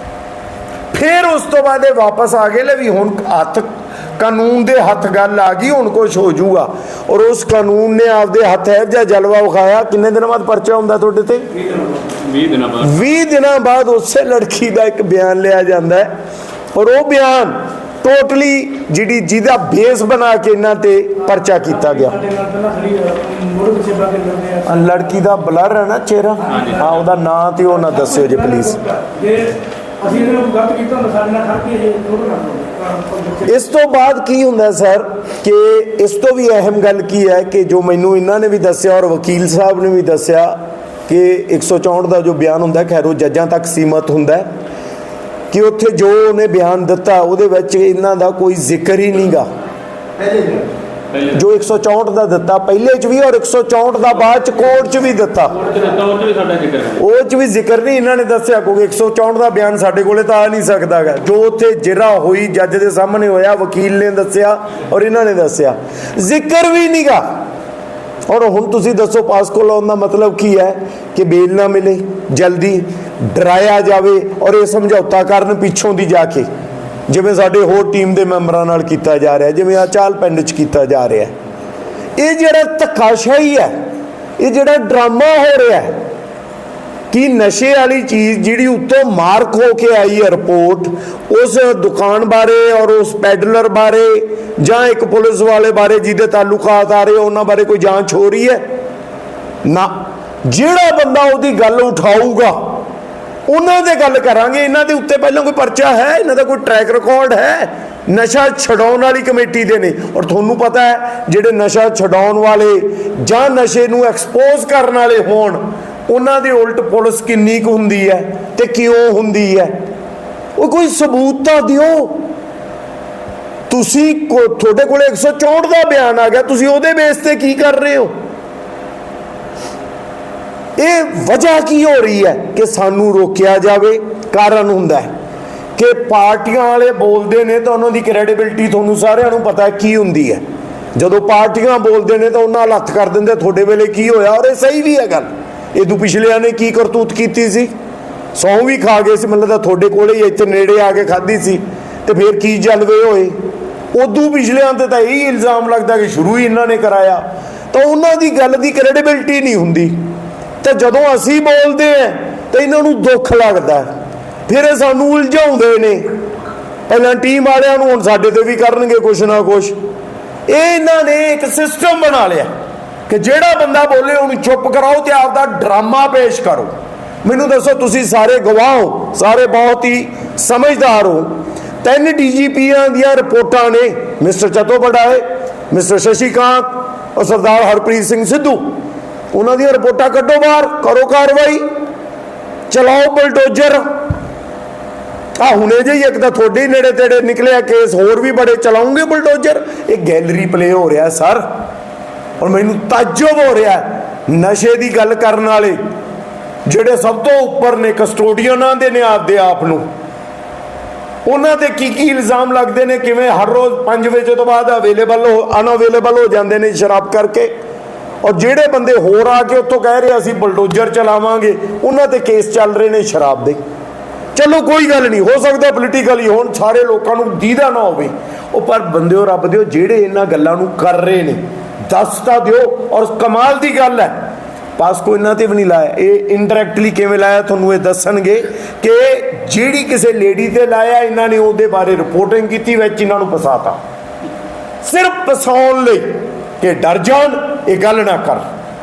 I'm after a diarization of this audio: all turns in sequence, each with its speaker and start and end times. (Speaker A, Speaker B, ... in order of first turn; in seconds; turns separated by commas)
Speaker A: 0.9-11.5, Speaker B: 12.1-12.8, Speaker A: 12.8-16.1, Speaker A: 16.7-22.2, Speaker C: 22.2-24.6, Speaker A: 24.6-28.8, Speaker B: 26.5-26.9, Speaker C: 29.0-33.4, Speaker A: 33.4-40.5, Speaker A: 41.1-44.5, Speaker A: 45.5-49.5, Speaker A: 51.3-55.5, Speaker B: 55.6-57.0, Speaker A: 57.0-67.2, Speaker A: 68.3-76.5, Speaker A: 77.1-81.3, Speaker A: 82.2-83.7, Speaker A: 84.4-86.0, Speaker A: 87.1-98.6, Speaker A: 99.6-102.6, Speaker A: 103.5-119.8, Speaker A: 120.5-122.2, Speaker A: 123.7-128.1, Speaker A: 130.8-135.1, Speaker A: 135.8-140.4, Speaker A: 140.9-147.7, Speaker A: 148.3-153.3, Speaker A: 153.9-160.0, Speaker A: 160.6-163.8, Speaker A: 164.5-166.1, Speaker A: 166.9-169.7, Speaker A: 170.5-172.5, Speaker A: 173.1-176.7, Speaker A: 177.2-188.7, Speaker A: 189.3-191.6, Speaker A: 192.7-193.8, Speaker A: 195.3-201.4, Speaker A: 202.4-205.8, Speaker A: 206.7-209.8, Speaker A: 211.2-217.5, Speaker A: 218.2-223.6, Speaker A: 224.3-243.8, Speaker A: 244.8-248.4